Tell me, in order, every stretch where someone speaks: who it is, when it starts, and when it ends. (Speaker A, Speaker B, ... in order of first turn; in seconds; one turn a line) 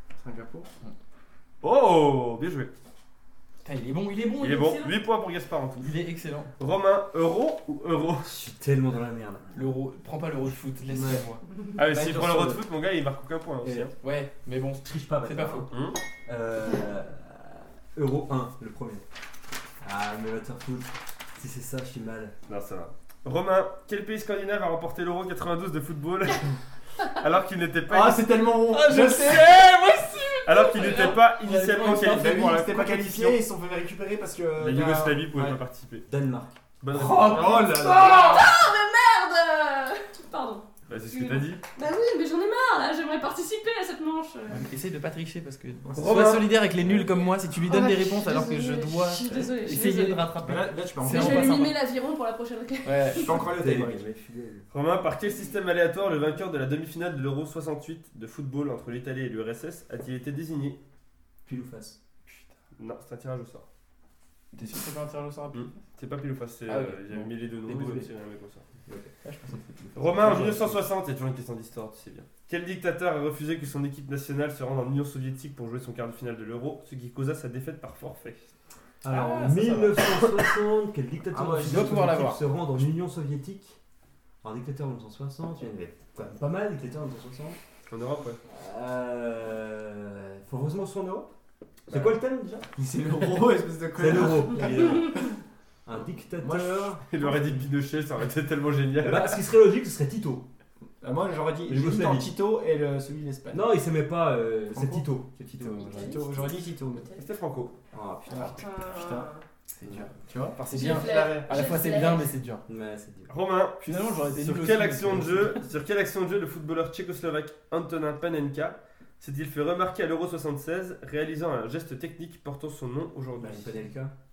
Speaker A: 0.2-0.7
Speaker B: 1.6-2.7
Speaker C: 3.6-5.0
Speaker B: 4.4-6.0
Speaker C: 5.8-6.5
Speaker B: 6.6-8.3
Speaker D: 8.2-9.8
Speaker C: 9.5-11.4
Speaker A: 10.9-11.2
Speaker B: 11.8-13.9
Speaker A: 12.0-12.6
Speaker C: 13.9-15.7
Speaker D: 14.8-19.1
Speaker B: 15.7-16.0
Speaker D: 19.8-22.4
Speaker B: 22.5-28.3
Speaker A: 27.9-29.5
Speaker C: 28.7-33.1
Speaker B: 30.4-33.4
Speaker A: 32.1-35.6
Speaker B: 34.6-36.1
Speaker D: 36.1-36.6
Speaker B: 36.8-37.8
Speaker C: 36.9-38.5
Speaker A: 37.2-38.3
Speaker E: 37.9-44.7
Speaker B: 40.9-41.6
Speaker C: 44.6-51.8
Speaker B: 45.9-46.5
Speaker A: 45.9-46.3
Speaker E: 47.6-50.3
Speaker A: 50.4-51.7
Speaker E: 51.0-53.5
Speaker C: 52.8-53.4
Speaker A: 53.1-54.0
Speaker D: 53.3-54.7
Speaker B: 54.7-60.8
Speaker D: 61.5-62.0
Speaker C: 62.3-62.5
Speaker B: 62.8-63.6
Speaker C: 64.5-65.8
Speaker B: 65.5-68.6
Speaker C: 66.7-68.1
Speaker D: 68.9-70.8
Speaker C: 69.2-70.7
Speaker B: 70.0-78.5
Speaker D: 79.0-83.8
Speaker C: 79.1-80.2
Speaker C: 81.3-82.4
Speaker D: 84.4-87.6
Speaker B: 87.9-88.4
Speaker D: 88.5-91.3
Speaker B: 91.9-92.2
Speaker D: 91.9-92.7
Speaker A: 92.8-95.2
Speaker D: 94.0-95.3
Speaker D: 95.8-97.0
Speaker A: 96.4-97.0
Speaker B: 97.1-99.4
Speaker D: 99.0-100.5
Speaker A: 101.0-103.7
Speaker D: 101.7-102.3
Speaker D: 103.5-106.2
Speaker A: 104.8-105.0
Speaker A: 105.6-107.1
Speaker E: 105.8-107.2
Speaker B: 107.2-107.8
Speaker D: 107.9-108.7
Speaker A: 108.3-109.3
Speaker E: 108.4-109.4
Speaker C: 109.8-112.6
Speaker D: 109.8-110.1
Speaker A: 110.1-111.6
Speaker E: 110.7-112.4
Speaker D: 112.7-113.3
Speaker B: 113.3-123.9
Speaker C: 113.8-115.6
Speaker D: 123.4-124.1